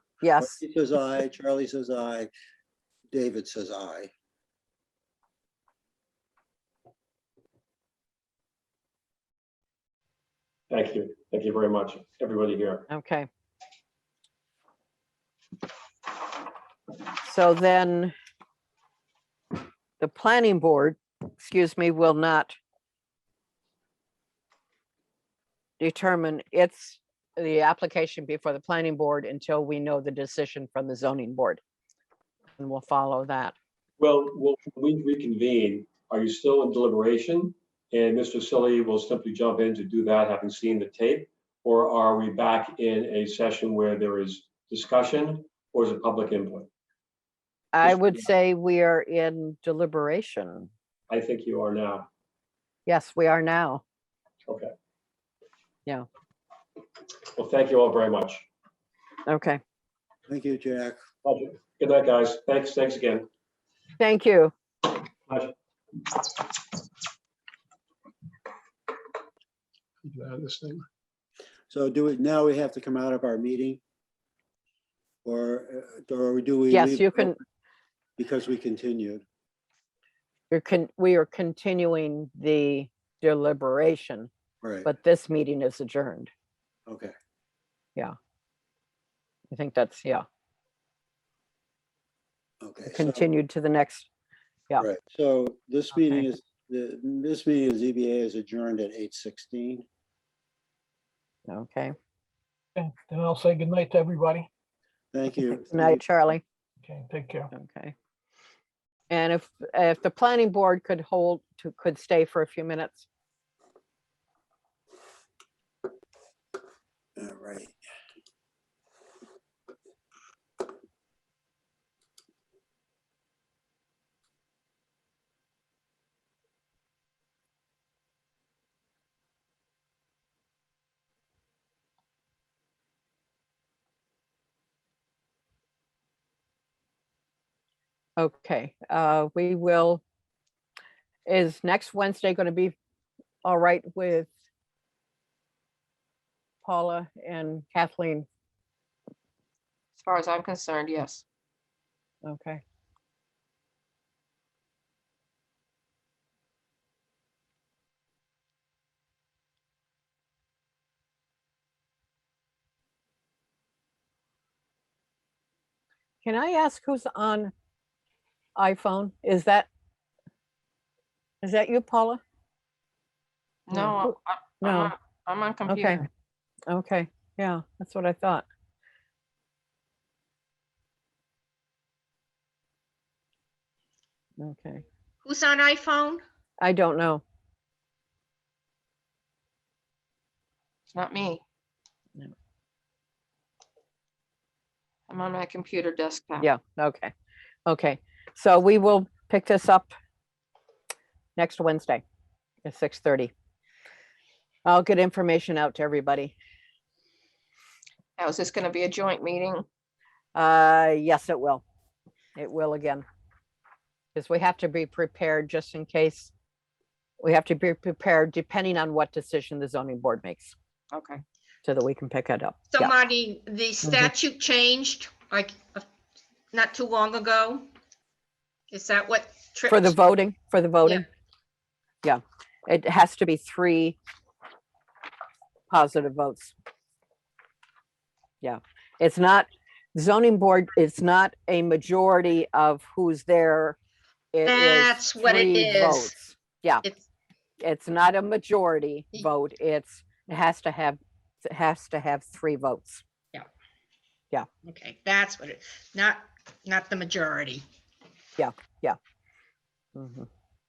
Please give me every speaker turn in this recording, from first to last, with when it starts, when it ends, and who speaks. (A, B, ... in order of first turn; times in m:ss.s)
0:00.2-0:00.6 A
0:00.4-0:02.3 B
0:03.1-0:04.1 B
0:10.7-0:12.9 C
0:12.9-0:13.3 A
0:17.2-0:18.1 A
0:20.0-0:22.6 A
0:25.8-0:31.6 A
0:32.6-0:33.6 A
0:34.0-0:46.7 C
0:47.7-0:50.7 A
0:47.8-0:48.1 C
0:51.1-0:52.1 C
0:52.9-0:53.8 A
0:57.3-0:58.4 C
0:59.3-0:59.6 A
1:00.3-1:01.0 B
1:01.2-1:03.3 C
1:04.0-1:04.5 A
1:05.3-1:06.6 C
1:10.0-1:10.8 D
1:11.7-1:13.8 B
1:15.2-1:17.3 B
1:16.7-1:17.4 A
1:18.2-1:19.2 B
1:20.5-1:24.3 A
1:24.6-1:24.9 B
1:24.8-1:26.3 A
1:26.9-1:27.1 B
1:29.5-1:30.2 A
1:32.6-1:33.3 B
1:32.8-1:34.1 A
1:34.8-1:39.8 B
1:35.9-1:36.2 A
1:41.5-1:41.9 A
1:43.0-1:44.4 D
1:45.1-1:46.0 B
1:45.5-1:46.4 A
1:47.5-1:47.9 A
1:49.1-1:53.1 A
1:57.2-1:57.8 B
2:18.2-2:20.0 A
2:21.3-2:22.8 A
2:23.4-2:24.3 A
2:26.6-2:28.3 A
2:30.0-2:31.2 E
2:32.2-2:32.6 A
2:46.2-2:47.5 A
2:48.6-2:49.7 A
2:51.4-2:52.2 A
2:53.7-2:55.9 E
2:53.7-2:54.9 A
2:55.6-2:56.1 A
2:56.7-2:58.5 A
3:04.4-3:04.8 A
3:05.2-3:06.2 F
3:06.6-3:07.2 A
3:10.9-3:11.4 E
3:15.1-3:16.5 E
3:16.4-3:17.1 A
3:17.7-3:19.9 A
3:21.4-3:22.0 A
3:22.6-3:23.3 A
3:24.6-3:26.4 A
3:28.2-3:29.6 E
3:30.3-3:31.6 A
3:32.4-3:33.0 A
3:34.2-3:36.3 A
3:37.2-3:40.5 A
3:40.9-3:41.2 E
3:41.6-3:42.9 A
3:42.7-3:45.9 F
3:43.8-3:44.1 A
3:46.5-3:47.7 F
3:48.7-3:50.0 F
3:49.7-3:51.0 A
3:52.0-3:54.0 A
3:55.7-3:56.5 A
3:58.4-4:03.8 A
4:04.3-4:06.8 A
4:04.5-4:06.1 F
4:07.6-4:13.0 A
4:14.7-4:17.6 F
4:18.4-4:19.0 A
4:20.0-4:20.3 A